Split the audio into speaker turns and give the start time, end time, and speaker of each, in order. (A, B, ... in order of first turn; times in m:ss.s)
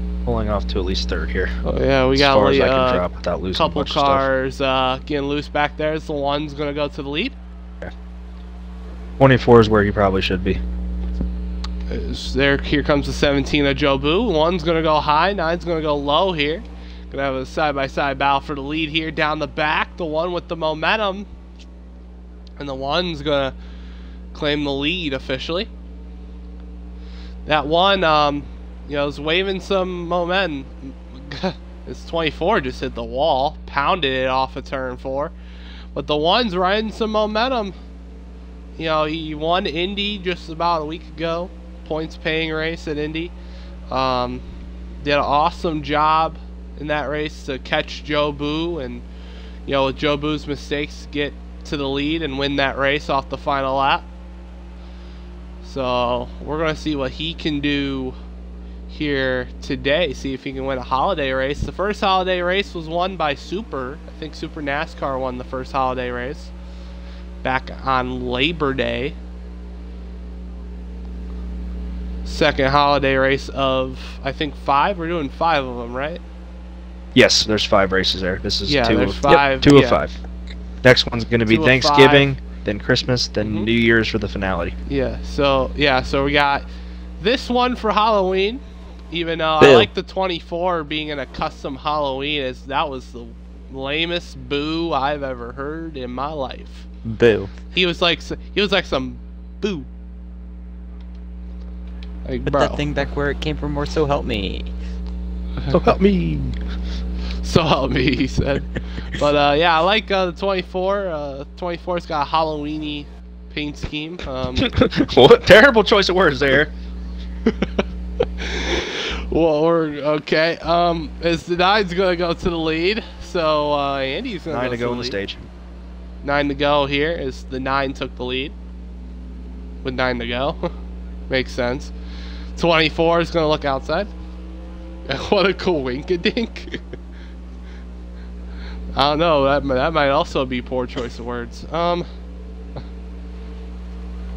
0:00.2-0:01.6 A
0:01.6-0:07.4 B
0:02.1-0:04.3 A
0:09.2-0:10.6 A
0:11.9-0:21.3 B
0:22.6-0:23.6 B
0:24.3-0:25.7 B
0:27.5-0:35.3 B
0:35.9-0:37.8 B
0:38.8-0:43.3 B
0:43.9-0:44.4 B
0:45.0-0:49.1 B
0:49.7-0:54.1 B
0:55.6-0:58.2 B
0:58.9-1:06.5 B
1:07.4-1:09.2 B
1:12.2-1:16.2 B
1:17.1-1:20.2 A
1:18.7-1:20.0 B
1:20.8-1:24.8 A
1:21.5-1:22.3 B
1:23.4-1:23.7 B
1:24.9-1:26.6 B
1:27.2-1:36.9 B
1:29.6-1:29.9 C
1:37.0-1:37.5 C
1:37.7-1:39.9 B
1:42.3-1:42.8 B
1:42.5-1:44.7 C
1:45.7-1:46.6 A
1:47.4-1:54.7 B
1:54.6-1:56.7 A
1:57.5-1:57.7 B
1:58.4-2:05.2 B
2:04.5-2:05.4 A
2:06.2-2:08.6 B
2:09.8-2:10.7 B
2:11.3-2:11.9 B
2:12.6-2:14.1 B
2:15.1-2:16.8 B
2:19.0-2:22.1 B